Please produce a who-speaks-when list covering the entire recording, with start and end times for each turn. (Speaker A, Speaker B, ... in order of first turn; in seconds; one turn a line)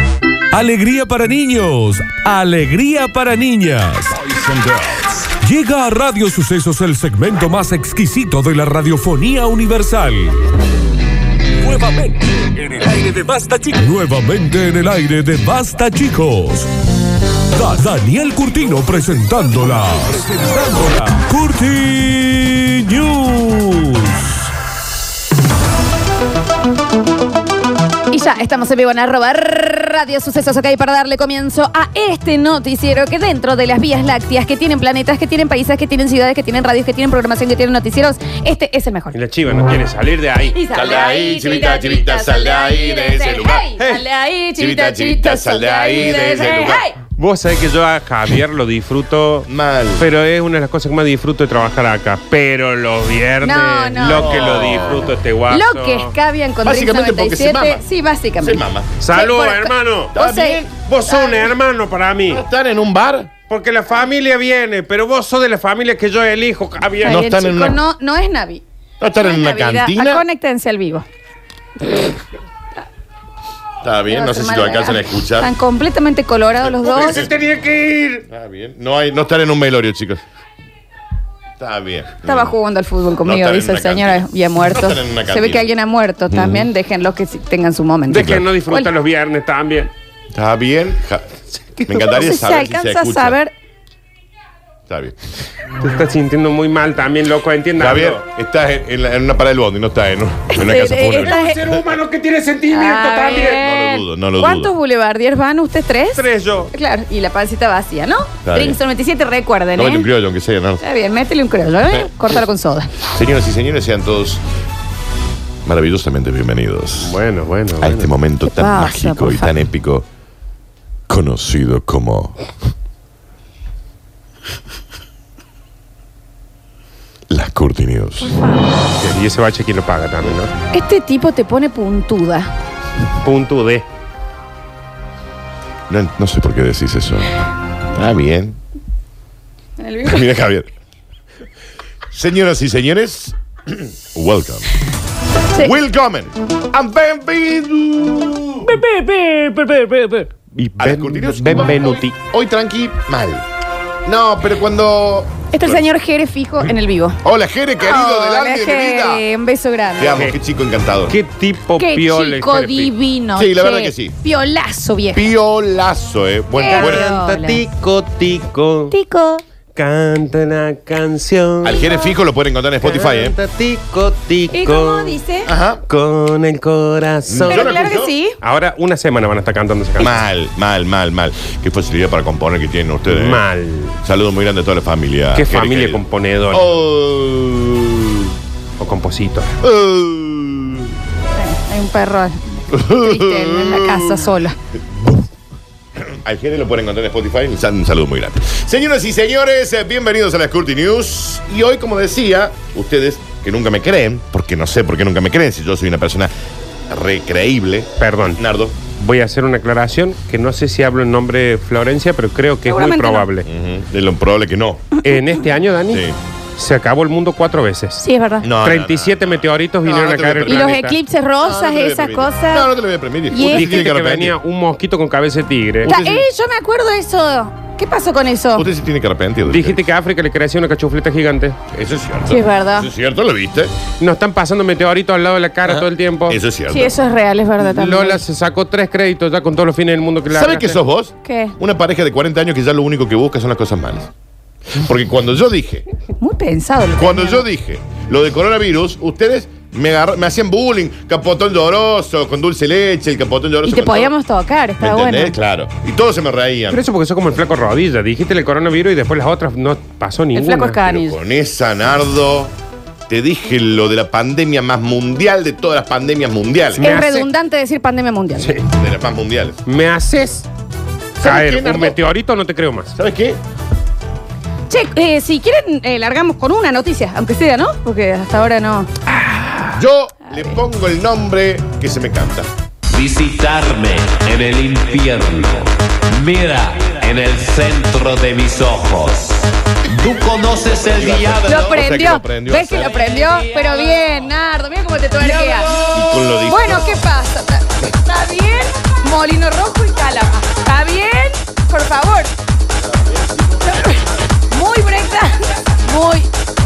Speaker A: 0.5-10.4
Speaker A: 11.6-16.7
Speaker A: 17.5-24.5
Speaker B: 28.1-39.2
Speaker C: 39.1-40.6
Speaker B: 40.5-47.0
Speaker D: 40.7-43.7
Speaker C: 43.8-44.0
Speaker D: 44.6-46.9
Speaker C: 45.9-56.1
Speaker D: 49.5-50.0
Speaker B: 53.4-61.5
Speaker D: 54.0-55.1
Speaker D: 56.6-57.8
Speaker D: 58.4-58.9
Speaker C: 59.0-60.2
Speaker D: 60.1-60.7
Speaker C: 60.8-62.4
Speaker D: 62.3-63.3
Speaker C: 63.5-67.3
Speaker B: 67.0-68.6
Speaker D: 67.0-67.8
Speaker D: 69.0-70.2
Speaker B: 69.1-71.0
Speaker D: 73.8-75.5
Speaker B: 74.1-77.3
Speaker C: 76.8-78.2
Speaker D: 78.3-80.2
Speaker D: 81.6-82.5
Speaker B: 82.2-88.9
Speaker D: 83.2-85.7
Speaker D: 86.3-86.7
Speaker C: 88.1-89.9
Speaker D: 90.3-93.4
Speaker B: 91.9-93.5
Speaker D: 94.9-95.2
Speaker C: 95.7-98.2
Speaker D: 97.8-101.8
Speaker B: 100.5-101.6
Speaker C: 101.1-103.6
Speaker B: 102.7-110.1
Speaker D: 103.5-104.7
Speaker C: 106.1-106.7
Speaker D: 108.4-108.8
Speaker D: 109.7-110.8
Speaker B: 110.8-113.0
Speaker D: 113.0-114.4
Speaker D: 115.6-117.2
Speaker C: 117.0-118.1
Speaker D: 117.8-120.0
Speaker B: 118.4-119.5
Speaker D: 121.1-122.4
Speaker D: 127.3-128.4
Speaker B: 128.2-128.8
Speaker C: 128.9-130.5
Speaker B: 130.7-132.5
Speaker C: 133.2-133.8
Speaker D: 135.9-137.4
Speaker D: 137.9-138.6
Speaker B: 139.8-140.3
Speaker D: 140.0-140.7
Speaker D: 142.1-144.7
Speaker D: 145.6-148.7
Speaker C: 148.6-152.2
Speaker D: 150.8-153.4
Speaker D: 154.0-155.9
Speaker B: 155.5-157.2
Speaker D: 157.2-159.2
Speaker B: 157.8-160.2
Speaker D: 160.0-161.2
Speaker C: 160.1-160.3
Speaker C: 161.1-162.9
Speaker B: 161.8-165.3
Speaker D: 163.3-164.2
Speaker D: 165.1-167.1
Speaker B: 166.5-167.6
Speaker C: 166.7-169.0
Speaker B: 168.9-169.4
Speaker C: 169.8-171.8
Speaker D: 171.6-173.4
Speaker C: 172.8-175.2
Speaker B: 174.5-175.5
Speaker D: 175.4-175.8
Speaker C: 175.9-177.8
Speaker D: 177.3-178.1
Speaker B: 177.4-178.4
Speaker C: 178.4-180.2
Speaker D: 180.0-183.4
Speaker C: 183.1-184.0
Speaker D: 184.0-188.3
Speaker C: 185.3-186.6
Speaker C: 188.8-189.5
Speaker D: 189.6-190.9
Speaker B: 191.3-194.6
Speaker D: 192.7-194.3
Speaker D: 194.9-195.2
Speaker D: 196.1-206.3
Speaker D: 206.9-208.8
Speaker C: 208.0-208.4
Speaker C: 208.9-213.4
Speaker B: 212.7-213.3
Speaker D: 213.4-215.0
Speaker C: 215.0-218.0
Speaker D: 215.9-216.1
Speaker B: 218.0-218.5
Speaker D: 218.4-220.9
Speaker C: 218.6-220.9
Speaker B: 220.4-222.7
Speaker D: 221.4-224.3
Speaker B: 223.3-223.8
Speaker C: 223.5-225.9
Speaker D: 225.8-226.2
Speaker B: 225.8-228.7
Speaker D: 228.5-229.8
Speaker C: 229.5-231.6
Speaker D: 231.7-233.7
Speaker B: 232.3-232.9
Speaker C: 234.0-236.4
Speaker D: 235.7-236.9
Speaker B: 236.7-238.2
Speaker C: 237.6-240.8
Speaker D: 240.3-244.1
Speaker B: 241.2-241.5
Speaker D: 244.7-245.8
Speaker B: 246.2-247.4
Speaker D: 247.0-254.1
Speaker B: 253.6-255.4
Speaker D: 254.8-256.8
Speaker C: 256.7-261.0
Speaker B: 260.3-261.2
Speaker D: 260.9-262.5
Speaker D: 263.1-266.9
Speaker C: 266.7-267.3
Speaker B: 266.8-268.5
Speaker C: 268.4-268.6
Speaker D: 268.6-269.6
Speaker C: 269.6-270.5
Speaker D: 271.2-272.0
Speaker C: 271.2-272.9
Speaker D: 273.0-273.4
Speaker B: 274.7-278.9
Speaker D: 279.7-282.5
Speaker E: 282.9-291.6
Speaker D: 290.9-293.0
Speaker B: 291.4-295.7
Speaker D: 295.8-297.0
Speaker B: 296.4-302.3
Speaker D: 302.8-304.2
Speaker B: 303.6-306.3